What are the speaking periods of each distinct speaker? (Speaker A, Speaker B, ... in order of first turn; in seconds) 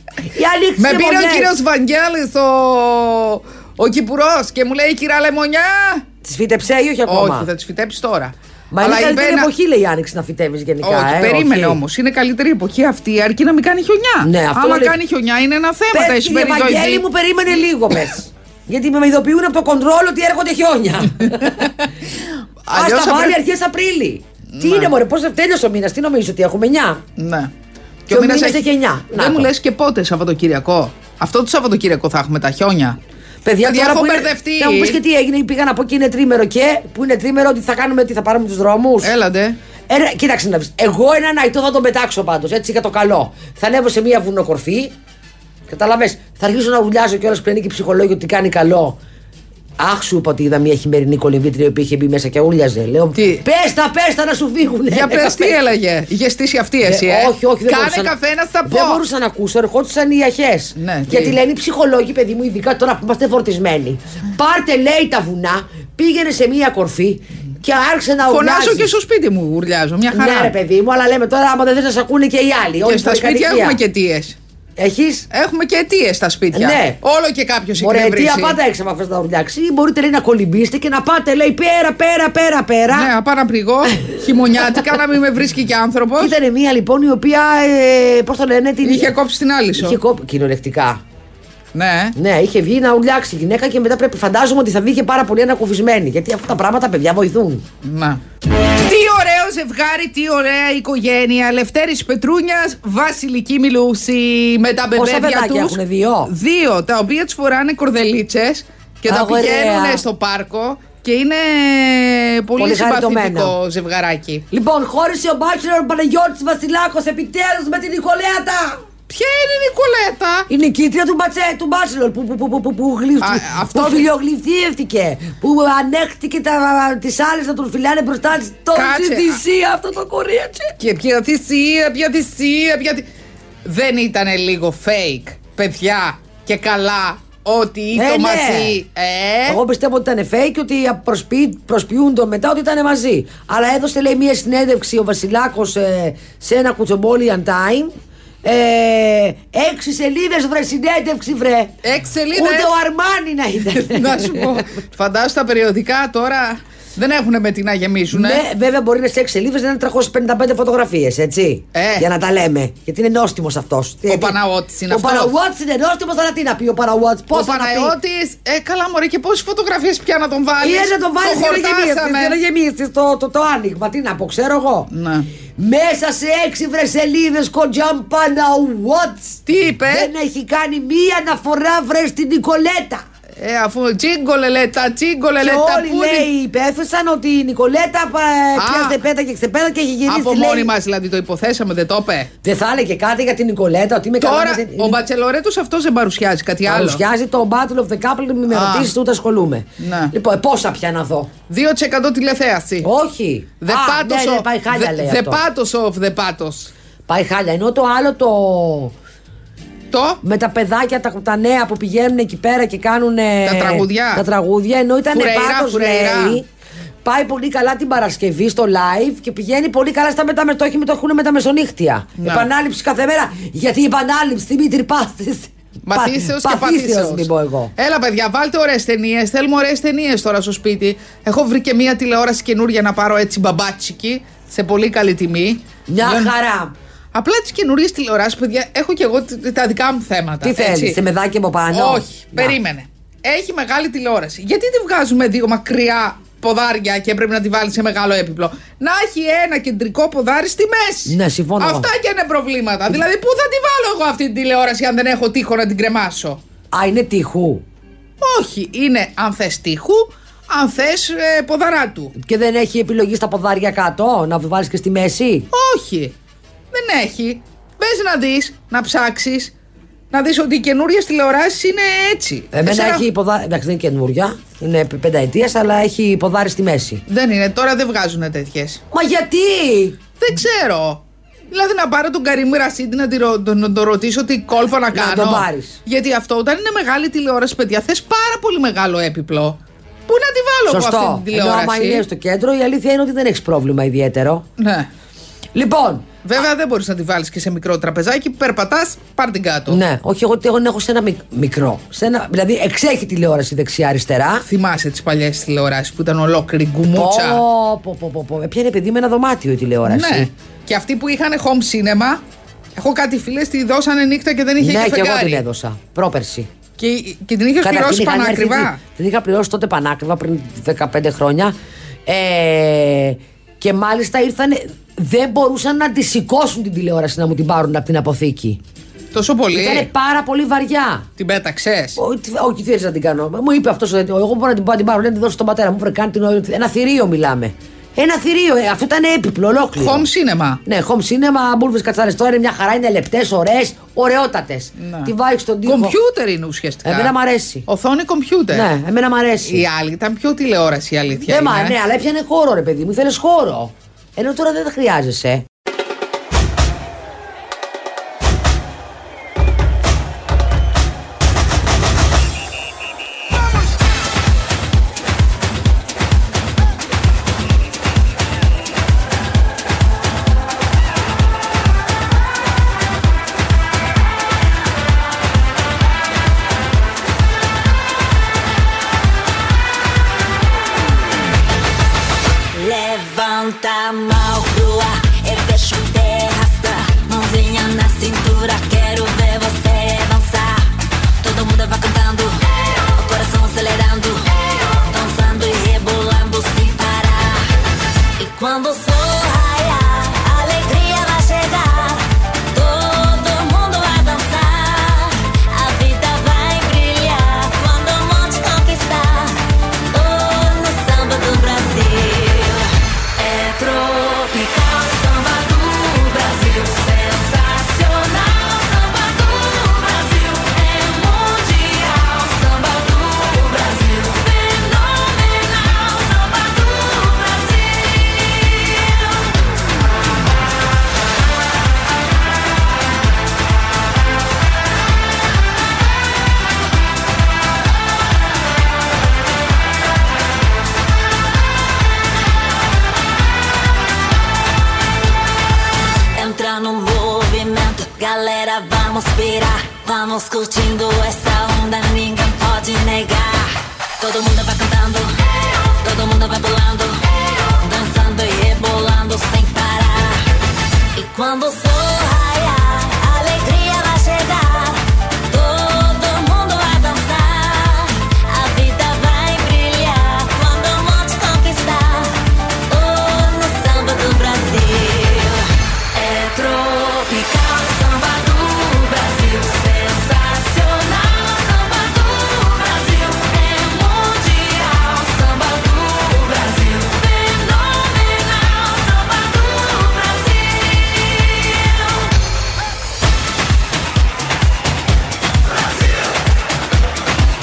Speaker A: 0.2-1.6, 6.2-7.5, 8.7-11.8, 14.2-15.0, 15.9-21.7, 22.7-27.0, 28.1-29.5, 33.4-39.1, 39.9-44.9, 45.7-49.0, 49.8-55.6, 56.8-58.1, 58.6-68.9, 70.1-73.8, 74.8-75.3, 76.5-77.0, 77.8-83.1, 86.2-89.1, 89.8-91.0, 92.2-97.6, 104.9-106.3, 109.1-110.0, 112.6-113.5, 114.5-118.8, 120.5-130.7, 137.9-138.8, 139.5-147.9, 148.4-151.8, 152.3-154.6, 158.1-164.4, 164.9-167.9, 170.6-174.9, 175.6-183.0, 185.4-190.7, 192.4-195.0, 196.7-201.3, 202.8-205.4, 207.1-208.9, 210.2-216.4, 217.0-227.7, 235.9-236.7, 240.4-242.6, 251.1-251.9, 256.7-257.6, 262.2-265.5, 272.5-277.0, 278.9-280.0, 284.9-285.8, 290.7-294.4, 295.5-296.1, 299.7-304.5, 306.9-310.3, 314.6-316.5, 317.6-321.5, 322.1-328.6, 329.5-331.1, 332.0-340.1, 340.6-345.9, 346.8-347.7, 348.5-349.6, 351.2-355.4
Speaker B: 0.8-6.1, 7.0-9.5, 10.8-17.0, 21.4-21.9, 22.6-23.4, 24.5-24.9, 27.2-27.5, 28.1-33.0, 33.6-35.0, 39.0-39.5, 53.1-53.4, 54.9-59.0, 60.8-61.4, 68.2-70.5, 72.8-74.4, 75.3-78.6, 82.9-86.3, 88.8-90.0, 91.7-92.2, 97.8-98.2, 98.8-114.4, 119.1-120.5, 123.2-124.1, 128.7-129.4, 130.8-133.0, 133.6-139.6, 151.8-152.7, 153.7-158.4, 161.7-162.1, 164.1-165.3, 167.3-172.4, 174.9-175.3, 179.4-180.1, 183.4-186.3, 188.6-189.0, 190.1-192.3, 194.2-197.0, 198.5-198.9, 199.8-200.1, 201.5-202.9, 203.6-206.7, 209.9-210.2, 213.4-214.2, 215.1-216.4, 222.2-222.5, 225.8-236.3, 237.1-241.0, 241.7-256.4, 258.2-262.1, 265.5-266.1, 266.7-269.5, 270.1-273.0, 277.1-278.8, 280.2-289.6, 290.1-292.0, 294.6-294.9, 296.2-299.8, 304.4-307.4, 309.8-312.2, 312.8-315.4, 316.8-318.8, 329.1-329.9, 331.2-332.0, 339.8-340.6, 344.8-345.1, 345.6-347.1, 347.7-348.7, 349.4-351.8
Speaker C: 382.5-397.5, 398.2-429.4, 446.1-460.2, 460.9-492.2